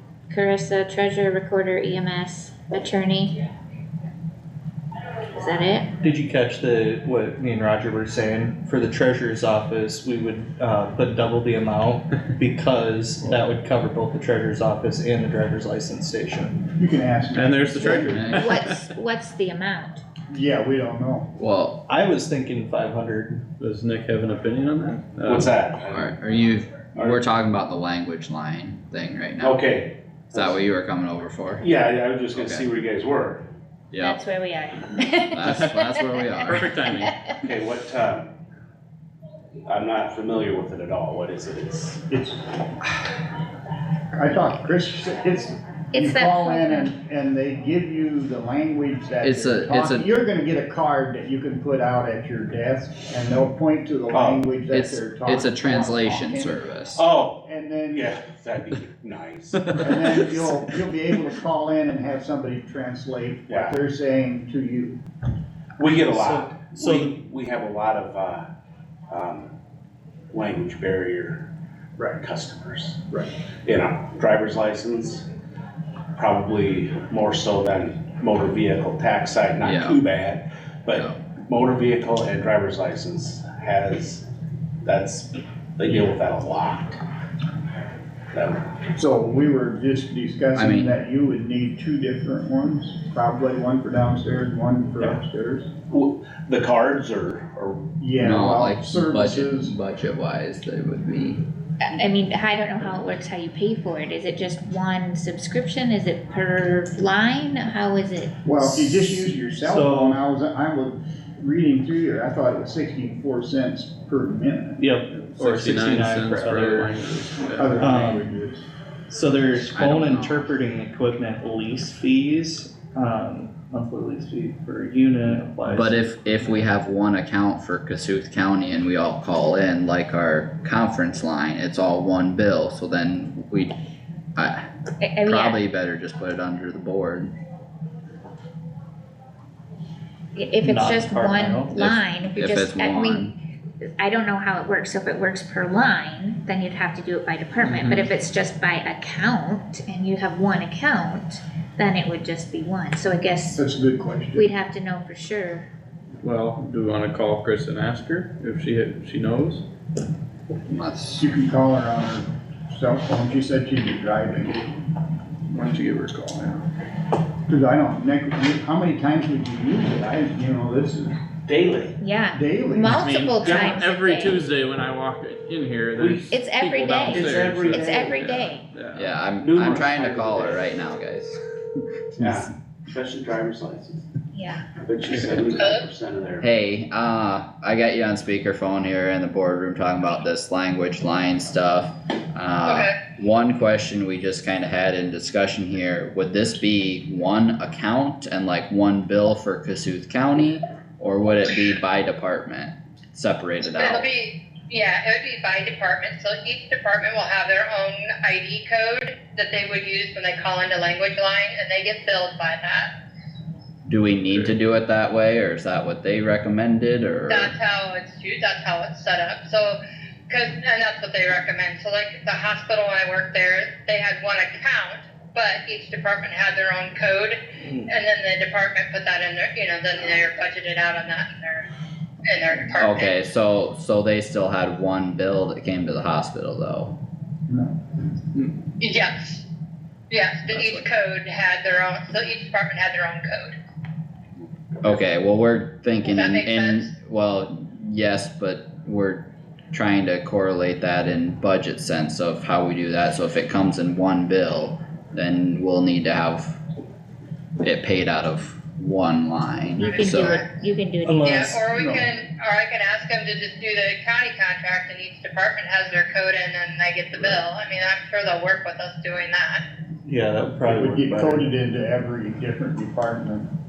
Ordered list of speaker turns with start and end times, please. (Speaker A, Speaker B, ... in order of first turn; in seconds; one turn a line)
Speaker A: 0.3-3.4
Speaker A: 5.3-5.9
Speaker B: 6.0-16.7
Speaker C: 16.8-18.5
Speaker D: 17.3-18.6
Speaker E: 18.1-18.5
Speaker A: 18.3-20.0
Speaker C: 20.3-21.3
Speaker E: 21.4-21.8
Speaker B: 21.9-23.5
Speaker D: 23.6-25.5
Speaker F: 25.2-26.1
Speaker E: 25.9-29.6
Speaker F: 27.0-27.2
Speaker F: 29.4-30.6
Speaker E: 30.3-31.6
Speaker F: 31.6-33.4
Speaker E: 32.3-32.7
Speaker E: 33.9-34.2
Speaker A: 34.0-37.3
Speaker E: 35.3-36.7
Speaker D: 36.5-37.1
Speaker F: 37.4-38.3
Speaker F: 39.6-42.0
Speaker C: 42.1-42.4
Speaker C: 44.1-56.6
Speaker A: 45.9-46.9
Speaker E: 49.2-50.1
Speaker F: 54.1-54.5
Speaker E: 54.7-57.0
Speaker F: 56.9-59.8
Speaker C: 57.4-58.1
Speaker C: 59.8-65.0
Speaker F: 63.5-63.8
Speaker F: 65.8-68.5
Speaker B: 65.9-67.2
Speaker F: 69.1-69.5
Speaker F: 70.3-71.5
Speaker C: 72.0-72.2
Speaker F: 72.2-73.1
Speaker F: 73.6-75.2
Speaker F: 76.2-84.2
Speaker E: 79.6-80.0
Speaker E: 80.9-81.2
Speaker F: 84.8-87.0
Speaker F: 88.3-88.7
Speaker C: 89.0-95.7
Speaker E: 90.5-90.9
Speaker F: 95.9-97.9
Speaker C: 98.0-99.7
Speaker E: 98.2-101.4
Speaker A: 101.9-108.6
Speaker C: 108.4-115.0
Speaker B: 109.6-110.2
Speaker B: 114.8-116.9
Speaker D: 115.4-117.8
Speaker C: 117.6-118.6
Speaker B: 117.8-118.3
Speaker B: 119.1-126.4
Speaker E: 119.7-120.4
Speaker E: 125.7-133.7
Speaker E: 134.3-134.7
Speaker A: 135.0-135.6
Speaker E: 135.2-137.3
Speaker A: 140.3-143.3
Speaker B: 140.6-142.0
Speaker E: 141.7-143.3
Speaker A: 144.0-153.6
Speaker D: 147.6-148.1
Speaker C: 153.5-154.5
Speaker A: 154.3-155.7
Speaker D: 156.2-159.6
Speaker E: 160.7-161.2
Speaker C: 161.2-164.7
Speaker D: 165.5-166.6
Speaker C: 167.5-171.2
Speaker F: 171.5-172.0
Speaker A: 172.0-174.5
Speaker C: 172.3-173.1
Speaker D: 172.9-179.1
Speaker F: 175.9-176.3
Speaker A: 176.3-178.7
Speaker F: 177.1-178.3
Speaker E: 178.9-181.4
Speaker F: 179.4-180.7
Speaker F: 182.2-184.0
Speaker A: 184.3-184.7
Speaker F: 184.8-186.4
Speaker G: 185.6-185.8
Speaker E: 186.4-204.1
Speaker G: 192.6-192.9
Speaker G: 203.6-212.9
Speaker E: 213.8-217.5
Speaker G: 217.3-219.8
Speaker G: 220.3-231.7
Speaker G: 232.2-233.2
Speaker E: 232.8-236.9
Speaker C: 237.5-237.7
Speaker G: 238.8-239.4
Speaker G: 240.1-243.6
Speaker E: 240.5-240.9
Speaker E: 244.8-256.6
Speaker G: 246.0-246.9
Speaker E: 257.6-260.4
Speaker A: 259.8-261.3
Speaker G: 259.8-260.4
Speaker B: 261.0-261.6
Speaker G: 261.2-269.6
Speaker C: 261.7-262.1
Speaker B: 270.0-271.4
Speaker C: 270.7-273.5